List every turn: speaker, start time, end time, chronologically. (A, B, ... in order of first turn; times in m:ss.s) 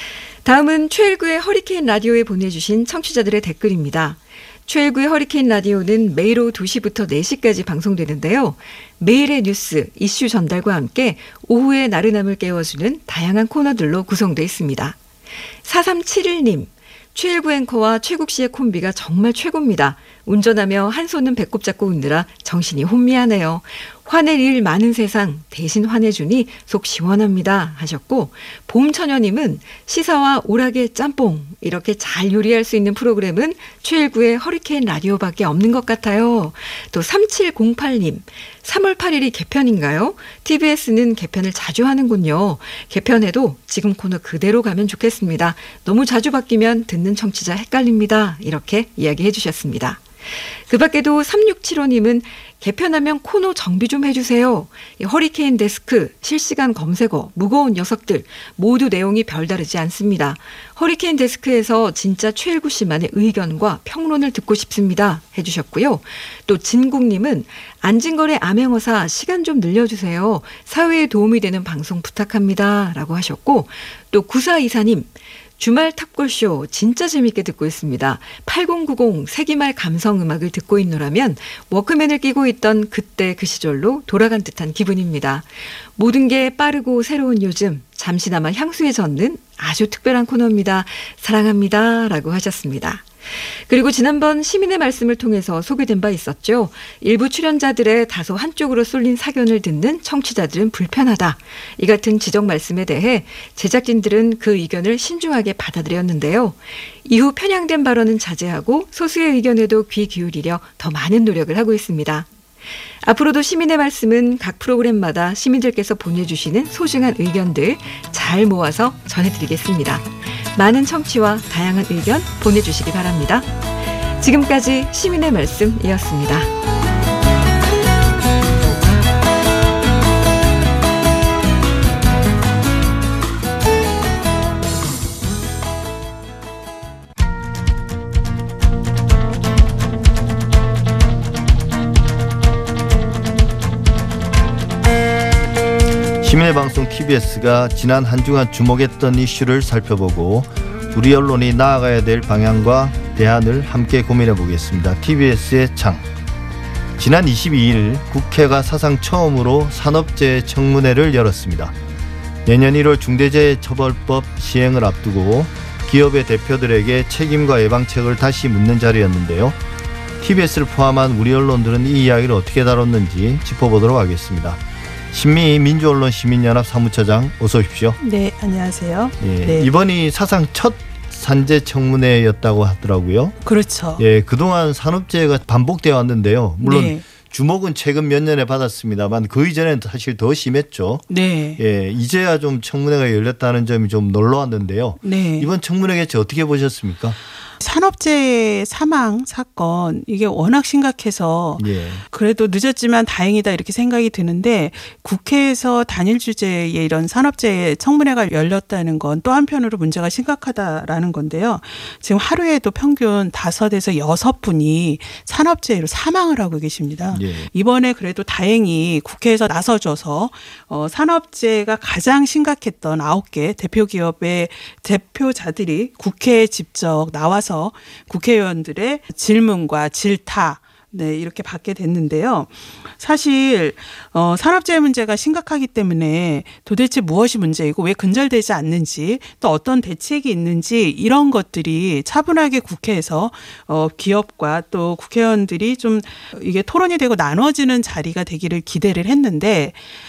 0:00.4-0:15.0 A
0:15.6-0:50.0 A
0:50.7-1:33.1 A
1:33.7-1:52.3 A
1:53.0-2:03.5 A
2:04.2-2:06.5 A
2:26.2-2:36.0 B
2:37.0-2:41.7 B
2:42.4-2:49.6 B
2:50.2-2:54.6 B
2:55.1-2:58.0 B
2:58.0-2:59.7 C
2:59.2-3:03.4 B
3:03.4-3:04.0 C
3:04.0-3:11.0 B
3:06.6-3:07.0 C
3:11.1-3:11.6 C
3:11.6-3:17.2 B
3:15.0-3:15.5 C
3:17.6-4:09.8 C
3:21.6-3:22.0 B
3:37.1-3:37.5 B